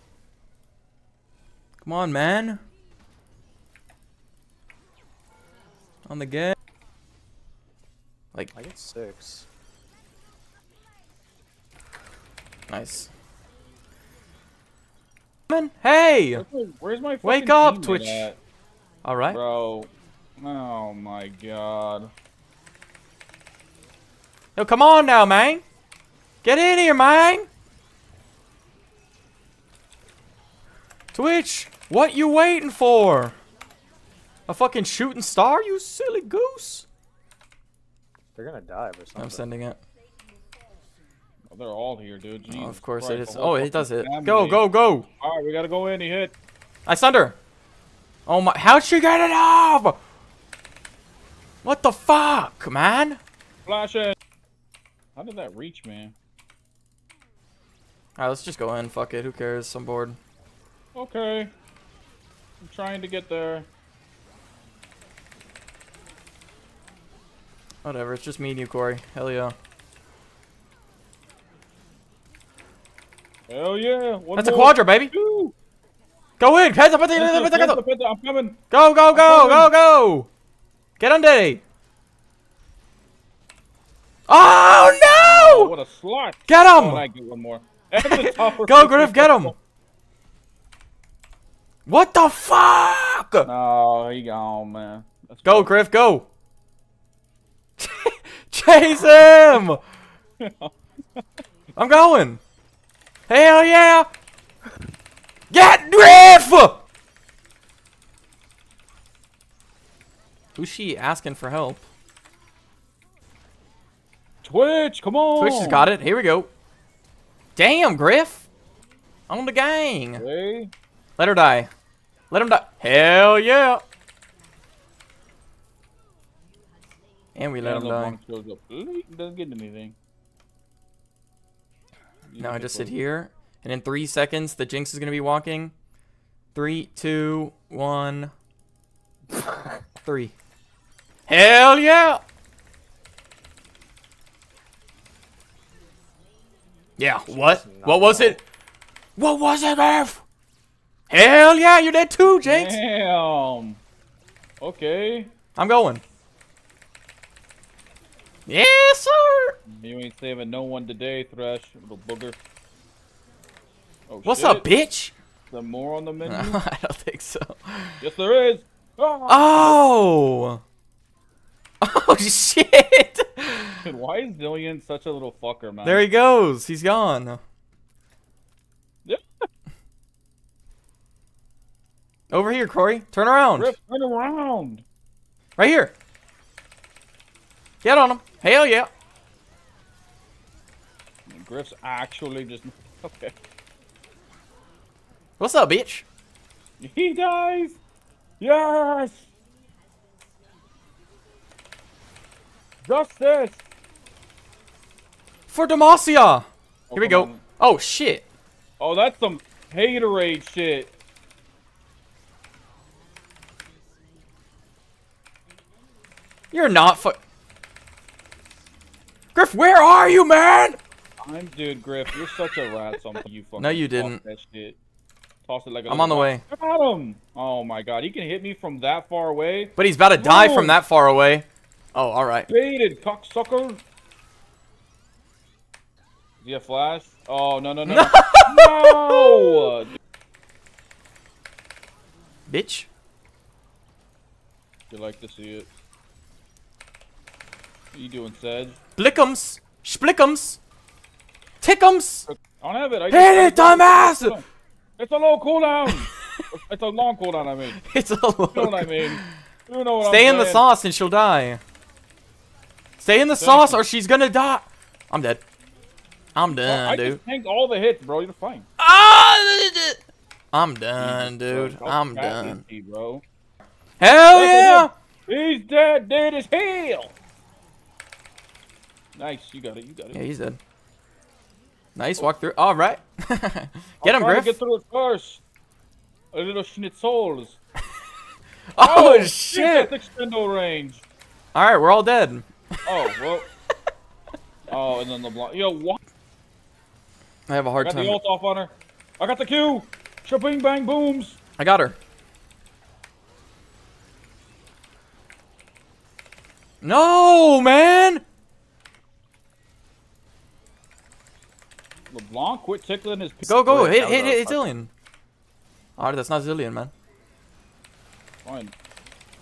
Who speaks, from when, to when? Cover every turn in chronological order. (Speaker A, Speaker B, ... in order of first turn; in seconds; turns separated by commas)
Speaker A: 1.8-2.6, Speaker A: 6.1-6.5, Speaker B: 8.5-9.5, Speaker A: 12.7-13.1, Speaker A: 15.5-16.4, Speaker C: 16.3-18.4, Speaker A: 17.2-18.3, Speaker A: 19.1-19.4, Speaker C: 19.3-22.1, Speaker A: 24.6-25.6, Speaker A: 26.4-27.5, Speaker A: 31.1-33.3, Speaker A: 34.5-36.9, Speaker B: 38.4-39.5, Speaker A: 39.2-39.8, Speaker C: 41.5-44.6, Speaker A: 42.5-45.1, Speaker C: 45.2-46.4, Speaker A: 46.9-47.4, Speaker A: 48.3-50.0, Speaker A: 51.6-53.2, Speaker C: 53.7-54.2, Speaker C: 55.2-56.2, Speaker A: 58.2-60.2, Speaker C: 61.0-61.5, Speaker C: 62.6-63.7, Speaker A: 67.8-69.5, Speaker C: 73.5-75.5, Speaker A: 74.4-75.1, Speaker A: 76.4-77.8, Speaker C: 77.1-78.6, Speaker A: 78.7-80.3, Speaker C: 79.1-79.7, Speaker A: 81.0-81.6, Speaker A: 84.3-85.7, Speaker C: 85.1-89.5, Speaker A: 86.5-87.0, Speaker A: 88.0-89.5, Speaker A: 91.9-93.5, Speaker C: 93.5-95.8, Speaker A: 95.4-96.3, Speaker A: 97.8-99.8, Speaker C: 100.4-101.2, Speaker A: 101.8-102.4, Speaker A: 103.3-104.1, Speaker A: 105.5-106.8, Speaker A: 110.6-111.8, Speaker C: 114.4-115.9, Speaker A: 115.4-116.5, Speaker A: 117.6-118.5, Speaker A: 119.3-120.2, Speaker C: 120.2-120.7, Speaker A: 121.2-121.7, Speaker A: 122.3-123.8, Speaker A: 127.4-128.2, Speaker C: 127.6-130.0, Speaker C: 132.3-132.9, Speaker A: 132.4-135.7, Speaker A: 136.6-138.3, Speaker A: 140.1-140.3, Speaker A: 141.3-142.2, Speaker A: 147.0-148.4, Speaker B: 147.3-148.4, Speaker A: 149.2-150.2, Speaker A: 151.1-152.8, Speaker C: 152.2-153.8, Speaker C: 154.6-155.3, Speaker A: 155.6-156.0, Speaker A: 158.5-159.6, Speaker C: 159.7-162.4, Speaker C: 164.1-164.7, Speaker A: 164.2-165.1, Speaker C: 165.5-166.6, Speaker A: 166.2-168.0, Speaker C: 168.0-169.8, Speaker A: 169.3-170.6, Speaker A: 171.8-173.8, Speaker C: 173.8-176.1, Speaker A: 175.8-177.4, Speaker A: 182.3-183.7, Speaker C: 183.6-184.8, Speaker A: 185.6-185.9, Speaker A: 187.8-188.9, Speaker C: 191.3-193.3, Speaker A: 195.4-196.1, Speaker C: 196.8-197.8, Speaker C: 198.4-199.3, Speaker C: 202.8-203.6, Speaker A: 205.5-208.2, Speaker C: 206.9-207.4, Speaker C: 208.8-210.9, Speaker A: 216.5-217.2, Speaker A: 219.3-220.8, Speaker C: 221.2-224.8, Speaker A: 223.6-224.2, Speaker C: 225.4-230.8, Speaker A: 225.9-226.4, Speaker A: 229.8-232.5, Speaker C: 232.5-233.8, Speaker C: 236.4-239.9, Speaker A: 237.9-239.7, Speaker A: 242.5-242.9, Speaker C: 244.9-245.7, Speaker C: 247.9-248.8, Speaker A: 249.0-250.6, Speaker A: 251.6-252.3, Speaker C: 252.3-254.4, Speaker A: 253.1-254.3, Speaker C: 255.0-257.8, Speaker A: 257.8-259.3, Speaker C: 258.5-260.6, Speaker A: 260.1-261.6, Speaker A: 263.0-265.4, Speaker C: 263.4-263.8, Speaker A: 266.4-267.2, Speaker C: 266.6-268.7, Speaker A: 268.8-270.0, Speaker A: 270.5-272.6, Speaker C: 271.0-273.2, Speaker A: 274.0-274.9, Speaker C: 274.3-277.1, Speaker C: 279.1-280.2, Speaker A: 280.1-280.6, Speaker A: 281.9-284.6, Speaker C: 284.0-285.4, Speaker C: 286.3-287.6, Speaker A: 288.7-289.9, Speaker C: 288.8-291.0, Speaker A: 291.6-292.4, Speaker C: 292.9-293.5, Speaker C: 294.7-296.0, Speaker A: 297.5-298.2, Speaker C: 297.8-301.4, Speaker A: 301.6-302.0, Speaker A: 306.8-308.2, Speaker C: 312.1-313.8, Speaker A: 313.4-314.9, Speaker B: 313.7-314.6, Speaker A: 316.0-316.9, Speaker C: 318.4-318.7